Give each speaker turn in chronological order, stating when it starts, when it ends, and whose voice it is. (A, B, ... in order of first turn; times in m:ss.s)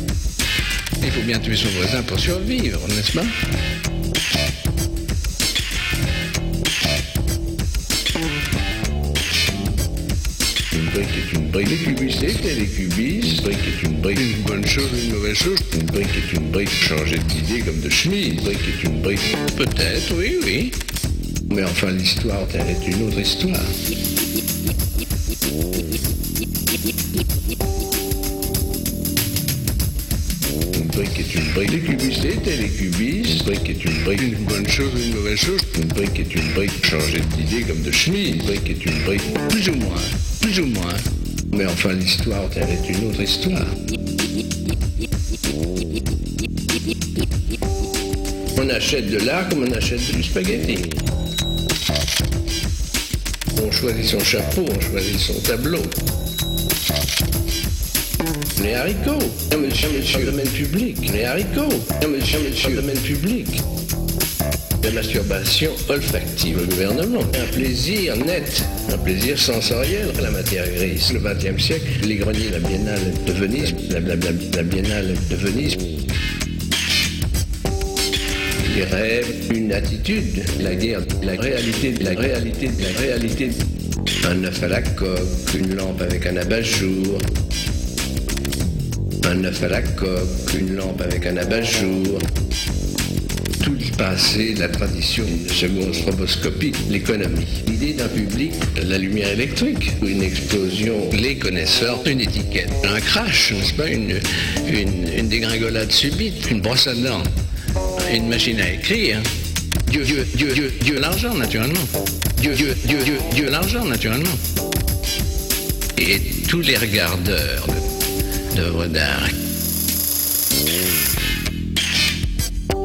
0:01.0-0:03.4 A
0:10.7-0:20.8 A
0:21.5-0:23.8 A
0:30.7-0:43.8 A
0:48.6-0:51.0 A
0:53.5-0:56.0 A
0:58.6-1:03.6 A
1:04.8-1:16.0 A
1:18.6-1:23.7 A
1:24.2-1:27.3 A
1:29.2-1:32.3 A
1:33.6-1:47.3 A
1:48.0-1:49.3 A
1:49.9-1:54.4 A
1:56.0-1:57.9 A
1:58.5-1:59.4 A